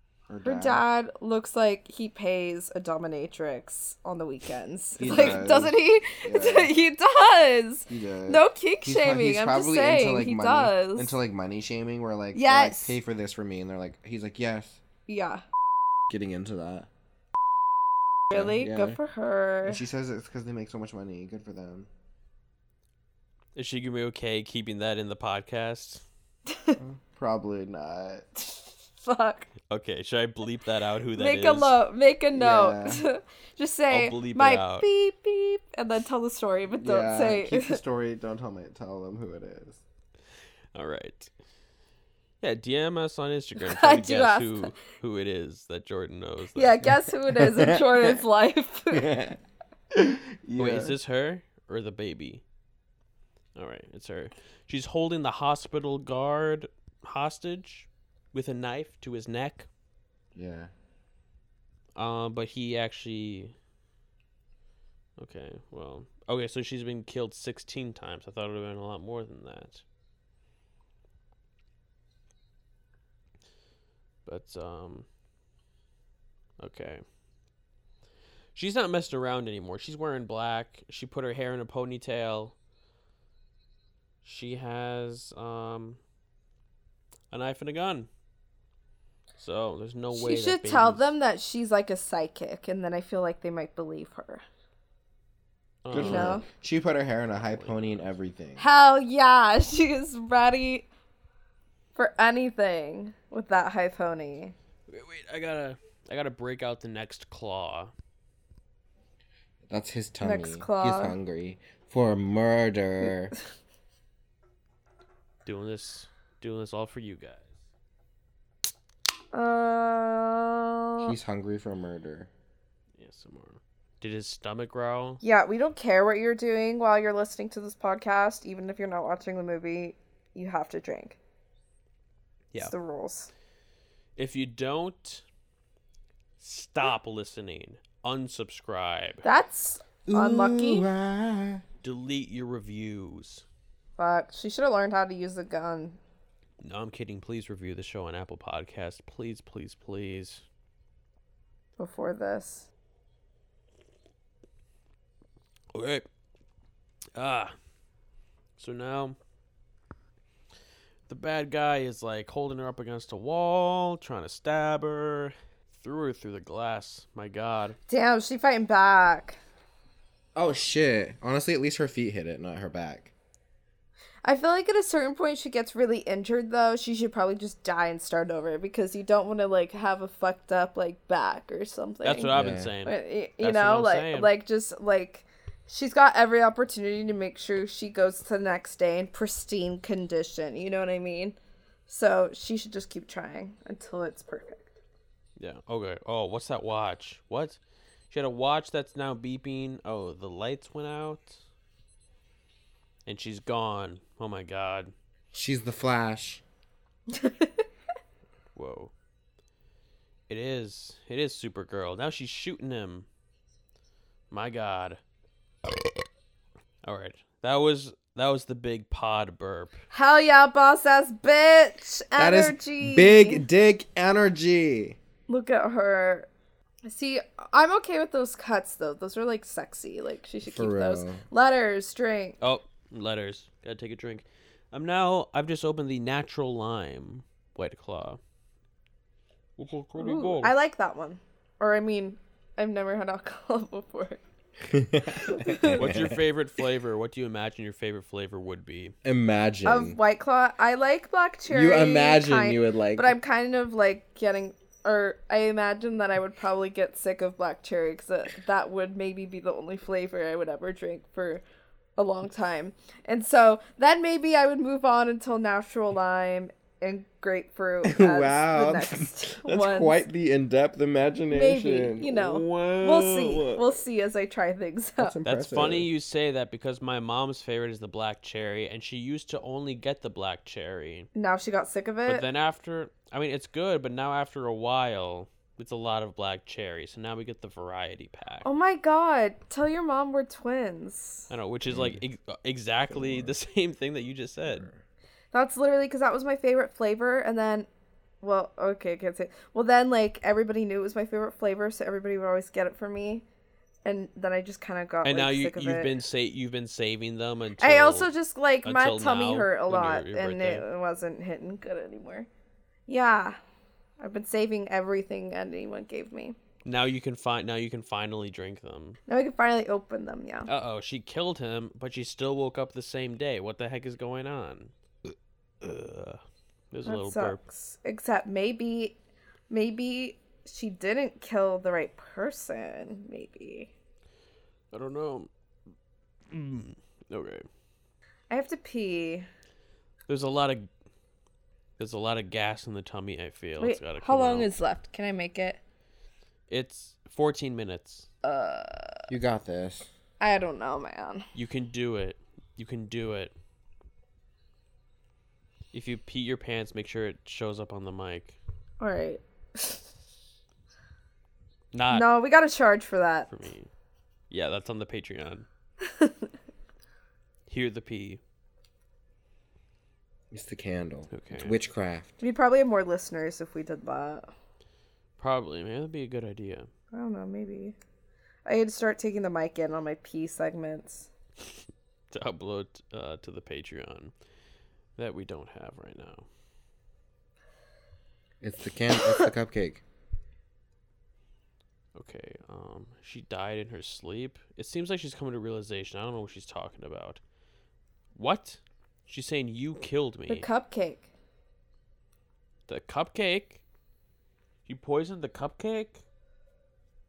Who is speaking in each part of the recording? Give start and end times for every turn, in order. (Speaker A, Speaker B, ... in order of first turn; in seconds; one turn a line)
Speaker A: 0.3-0.8
Speaker B: 0.4-11.2
Speaker A: 5.0-6.7
Speaker A: 7.9-14.8
Speaker B: 12.3-13.0
Speaker B: 15.1-15.4
Speaker A: 16.1-16.9
Speaker B: 18.3-19.8
Speaker A: 18.3-19.0
Speaker A: 19.6-21.9
Speaker C: 23.5-26.0
Speaker B: 26.5-26.8
Speaker A: 26.8-28.3
Speaker B: 28.5-29.5
Speaker C: 29.7-31.8
Speaker B: 31.1-37.8
Speaker A: 32.3-33.0
Speaker C: 33.9-34.9
Speaker A: 36.8-39.8
Speaker C: 40.7-41.3
Speaker C: 42.4-46.8
Speaker B: 43.6-44.7
Speaker B: 46.5-49.1
Speaker A: 46.9-48.2
Speaker A: 48.9-49.4
Speaker A: 49.9-51.0
Speaker C: 50.6-52.4
Speaker C: 53.5-59.7
Speaker A: 60.3-60.7
Speaker C: 62.0-63.5
Speaker C: 65.2-69.8
Speaker C: 74.2-75.0
Speaker C: 76.6-77.0
Speaker C: 78.5-82.5
Speaker C: 84.2-86.0
Speaker C: 87.3-88.1
Speaker C: 89.4-91.1
Speaker B: 90.1-94.4
Speaker C: 95.8-96.4
Speaker A: 95.9-98.7
Speaker B: 95.9-96.4
Speaker C: 97.3-98.1
Speaker B: 98.6-100.9
Speaker B: 102.0-104.5
Speaker C: 104.9-107.9
Speaker A: 109.7-113.3
Speaker B: 110.2-111.2
Speaker C: 115.4-117.5
Speaker B: 119.3-121.2
Speaker A: 121.0-122.3
Speaker C: 123.0-125.2
Speaker B: 125.2-131.2
Speaker B: 132.6-133.3
Speaker C: 134.2-135.2
Speaker C: 136.4-139.2
Speaker B: 139.2-140.9
Speaker A: 140.1-141.6
Speaker C: 141.8-143.4
Speaker B: 144.0-146.0
Speaker C: 146.6-150.4
Speaker B: 151.8-152.7
Speaker C: 155.7-156.1
Speaker C: 157.1-157.5
Speaker C: 158.6-159.2
Speaker C: 161.1-167.8
Speaker B: 167.9-169.4
Speaker A: 170.3-173.1
Speaker B: 174.2-191.3
Speaker C: 182.0-184.3
Speaker A: 182.3-182.7
Speaker B: 191.9-194.7
Speaker C: 195.4-197.6
Speaker C: 198.1-201.4
Speaker C: 203.1-204.9
Speaker A: 205.3-206.4
Speaker B: 207.1-207.6
Speaker C: 208.5-208.9
Speaker C: 210.3-213.1
Speaker C: 214.3-215.0
Speaker C: 216.8-219.8
Speaker B: 219.9-223.4
Speaker A: 222.2-225.0
Speaker B: 225.3-226.3
Speaker B: 226.8-232.4
Speaker A: 230.4-231.2
Speaker C: 232.4-238.2
Speaker C: 239.6-240.5
Speaker B: 239.9-244.2
Speaker A: 244.6-246.2
Speaker B: 245.1-245.9
Speaker C: 245.8-248.9
Speaker A: 249.0-250.0
Speaker B: 249.6-261.4
Speaker A: 251.5-253.2
Speaker B: 262.0-270.1
Speaker A: 267.8-273.6
Speaker B: 271.3-275.2
Speaker A: 275.0-275.9
Speaker C: 275.2-281.1
Speaker B: 281.1-282.2
Speaker C: 282.1-288.5
Speaker B: 288.4-291.3
Speaker C: 291.3-294.7
Speaker A: 291.7-292.0
Speaker A: 292.9-293.3
Speaker A: 294.5-294.8
Speaker B: 295.3-297.7
Speaker B: 298.2-303.2
Speaker B: 303.8-305.9
Speaker C: 305.0-308.1
Speaker B: 307.6-312.3
Speaker C: 308.6-310.6
Speaker B: 312.9-313.4
Speaker B: 314.0-316.4
Speaker C: 316.6-319.0
Speaker B: 319.1-320.5
Speaker C: 320.5-324.7
Speaker C: 325.6-327.4
Speaker B: 326.8-328.9
Speaker B: 329.5-333.7
Speaker C: 334.7-335.3
Speaker C: 336.3-337.5
Speaker B: 338.3-339.3
Speaker C: 340.1-340.7
Speaker C: 341.8-344.5
Speaker B: 343.6-345.6
Speaker C: 346.5-348.1
Speaker B: 348.2-349.1
Speaker A: 349.1-349.9
Speaker B: 350.2-351.3
Speaker C: 351.3-353.3
Speaker C: 355.7-358.4
Speaker B: 358.8-359.8
Speaker C: 361.7-362.1
Speaker B: 361.9-363.3
Speaker C: 363.3-363.7
Speaker C: 364.3-365.5
Speaker B: 365.8-366.3
Speaker C: 367.5-368.2
Speaker A: 370.3-372.1
Speaker C: 371.1-371.6
Speaker B: 372.2-374.3
Speaker C: 375.2-376.7
Speaker B: 376.9-377.8
Speaker B: 378.4-381.1
Speaker C: 382.1-384.1
Speaker C: 385.0-386.2
Speaker A: 388.4-389.8
Speaker C: 391.9-397.2
Speaker C: 398.1-400.5
Speaker B: 400.3-401.1
Speaker C: 402.7-403.6
Speaker C: 404.6-406.0